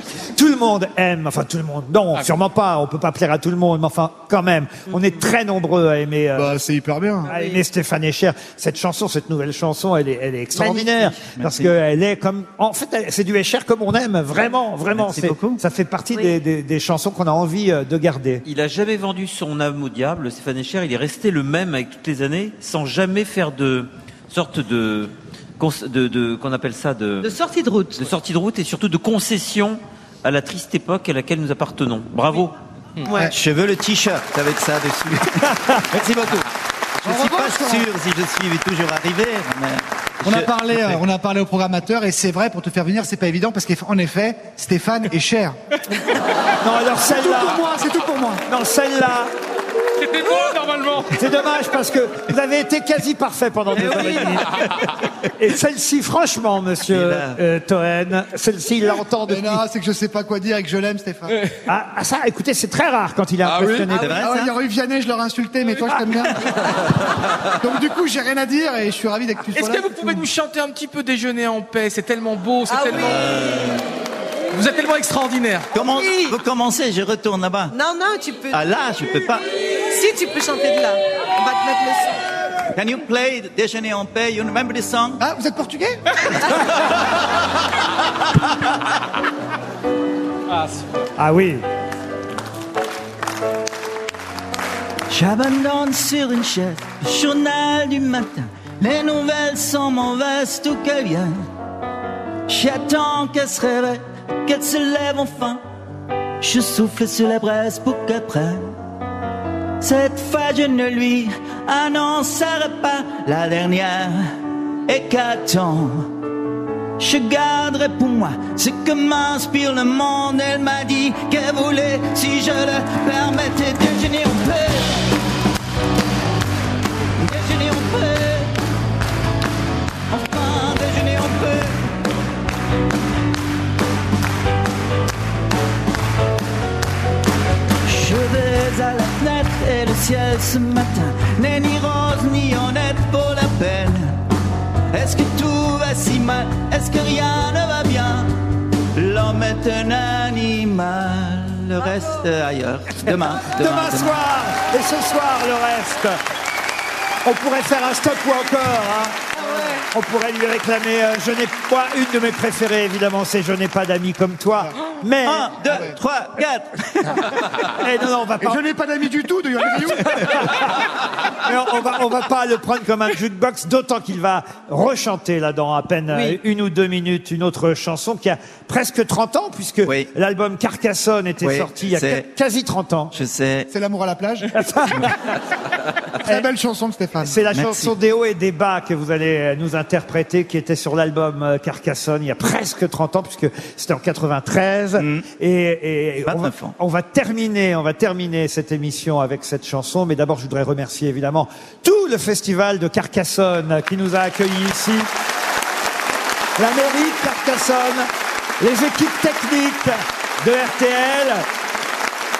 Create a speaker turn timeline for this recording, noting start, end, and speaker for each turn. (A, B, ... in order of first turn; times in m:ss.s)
0:00.3-0:06.6 A
0:06.4-0:07.3 B
0:07.2-0:18.4 A
0:10.5-0:11.7 C
0:14.9-0:15.6 C
0:18.4-0:27.4 D
0:27.2-0:28.1 E
0:27.9-0:32.5 D
0:33.0-0:33.3 E
0:33.3-0:36.5 C
0:35.4-0:35.8 A
0:37.0-0:41.0 C
0:37.0-0:37.9 B
0:40.2-0:45.6 B
0:46.6-0:47.6 A
0:47.1-0:48.4 B
0:48.5-0:49.3 A
0:50.1-0:51.0 F
0:51.1-0:54.7 A
0:53.7-0:54.5 C
0:55.4-0:59.6 A
0:56.9-0:57.4 C
0:59.3-1:01.4 B
1:01.7-1:04.2 A
1:03.8-1:04.5 C
1:04.1-1:06.4 B
1:07.6-1:10.2 B
1:09.5-1:13.3 F
1:12.7-1:13.2 E
1:13.0-1:13.8 C
1:14.5-1:15.7 F
1:15.7-1:17.7 C
1:15.9-1:16.4 E
1:17.7-1:18.6 E
1:18.5-1:19.4 C
1:19.9-1:22.2 E
1:22.7-1:25.2 C
1:25.2-1:26.0 B
1:31.2-1:31.6 A
1:35.1-1:41.3 C
1:42.5-1:45.6 C
1:46.4-1:48.7 C
1:49.8-1:54.3 C
1:54.9-1:56.1 C
1:57.0-2:05.1 C
2:07.2-2:08.6 C
2:10.1-2:11.9 C
2:17.8-2:24.2 C
2:24.9-2:28.3 C
2:28.9-2:34.2 C
2:33.1-2:36.2 A
2:37.2-2:39.2 A
2:39.4-2:39.8 E
2:39.9-2:45.5 A
2:45.2-2:47.3 C
2:45.6-2:46.0 B
2:47.7-2:48.6 A
2:48.4-2:50.4 B
2:50.1-2:50.6 A
2:51.4-3:03.1 A
2:56.1-2:56.4 E
2:59.8-3:00.1 C
3:01.4-3:02.2 C
3:03.1-3:03.7 C
3:03.7-3:04.5 B
3:04.5-3:05.1 A
3:06.2-3:07.4 B
3:07.2-3:25.1 A
3:07.5-3:07.9 C
3:15.0-3:15.2 C
3:16.2-3:16.8 C
3:26.6-3:31.4 A